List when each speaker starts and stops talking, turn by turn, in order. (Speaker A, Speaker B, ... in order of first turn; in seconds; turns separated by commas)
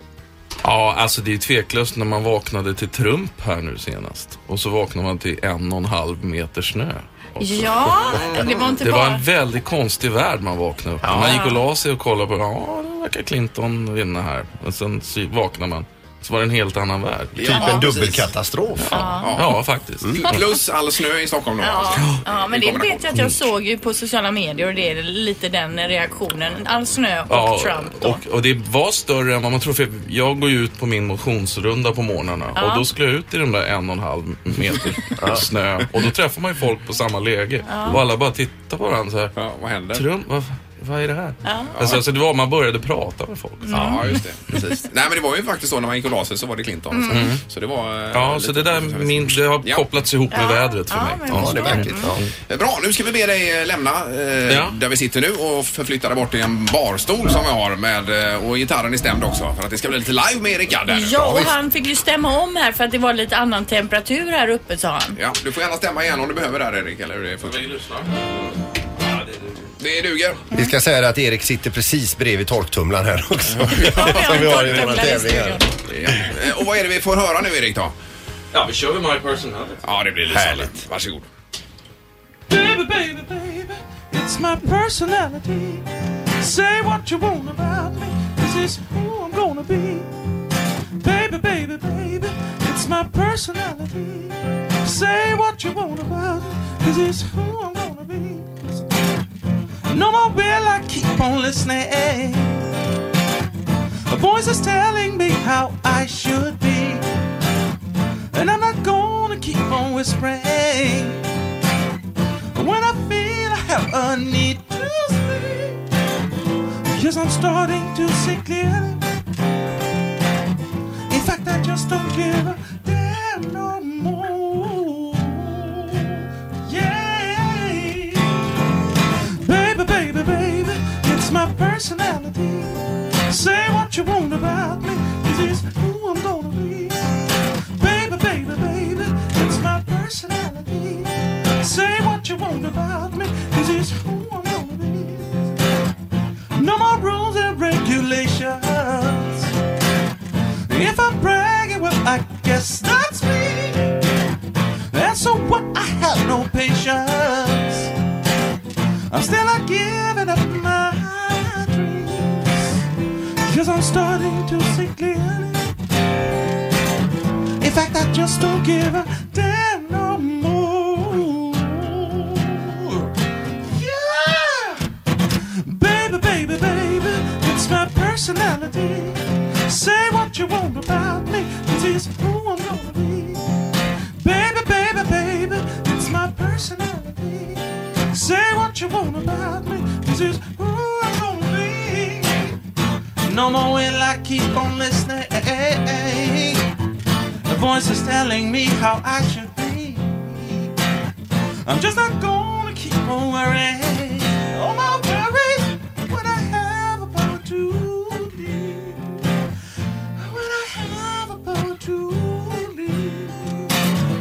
Speaker A: 0.6-17.8, Speaker B: 7.4-9.2, Speaker C: 8.2-8.6, Speaker D: 11.0-11.3, Speaker B: 11.2-11.6, Speaker D: 17.4-19.1, Speaker C: 17.4-18.3, Speaker B: 17.5-17.8, Speaker A: 18.8-20.2, Speaker B: 18.9-19.4, Speaker C: 19.2-19.6, Speaker C: 20.1-23.3, Speaker B: 21.6-28.2, Speaker A: 27.3-39.4, Speaker B: 32.5-32.9, Speaker D: 35.2-35.4, Speaker B: 37.6-38.0, Speaker C: 39.4-40.0, Speaker A: 39.9-43.9, Speaker B: 41.4-41.8, Speaker C: 41.7-42.0, Speaker B: 43.6-44.0, Speaker C: 43.7-49.8, Speaker B: 46.9-47.3, Speaker A: 47.1-47.4, Speaker A: 48.1-52.3, Speaker B: 50.3-52.1, Speaker D: 51.4-52.2, Speaker C: 52.5-61.4, Speaker A: 54.5-54.8, Speaker B: 60.9-65.2, Speaker D: 61.1-61.5, Speaker C: 65.2-67.6, Speaker A: 67.4-68.1, Speaker A: 69.0-69.6, Speaker C: 69.8-70.4, Speaker D: 70.5-75.7, Speaker C: 73.6-75.2, Speaker B: 73.9-75.7, Speaker C: 75.9-77.9, Speaker A: 78.5-79.8, Speaker C: 79.8-81.3, Speaker D: 80.3-80.8, Speaker E: 82.5-85.8, Speaker E: 86.4-90.1, Speaker E: 91.0-98.8, Speaker E: 99.9-102.7, Speaker E: 104.1-107.0, Speaker E: 108.3-111.2, Speaker E: 112.5-115.8, Speaker E: 116.9-119.0, Speaker E: 121.1-128.3, Speaker E: 129.4-137.1, Speaker E: 137.8-145.5, Speaker E: 146.6-149.5, Speaker E: 150.7-154.0, Speaker E: 154.9-157.9, Speaker E: 159.1-162.8, Speaker E: 163.4-165.7, Speaker E: 167.6-173.1, Speaker E: 173.7-174.8, Speaker E: 175.7-183.4, Speaker E: 184.2-192.5, Speaker E: 193.2-196.6, Speaker E: 197.5-200.7, Speaker E: 201.7-209.2, Speaker E: 210.2-213.7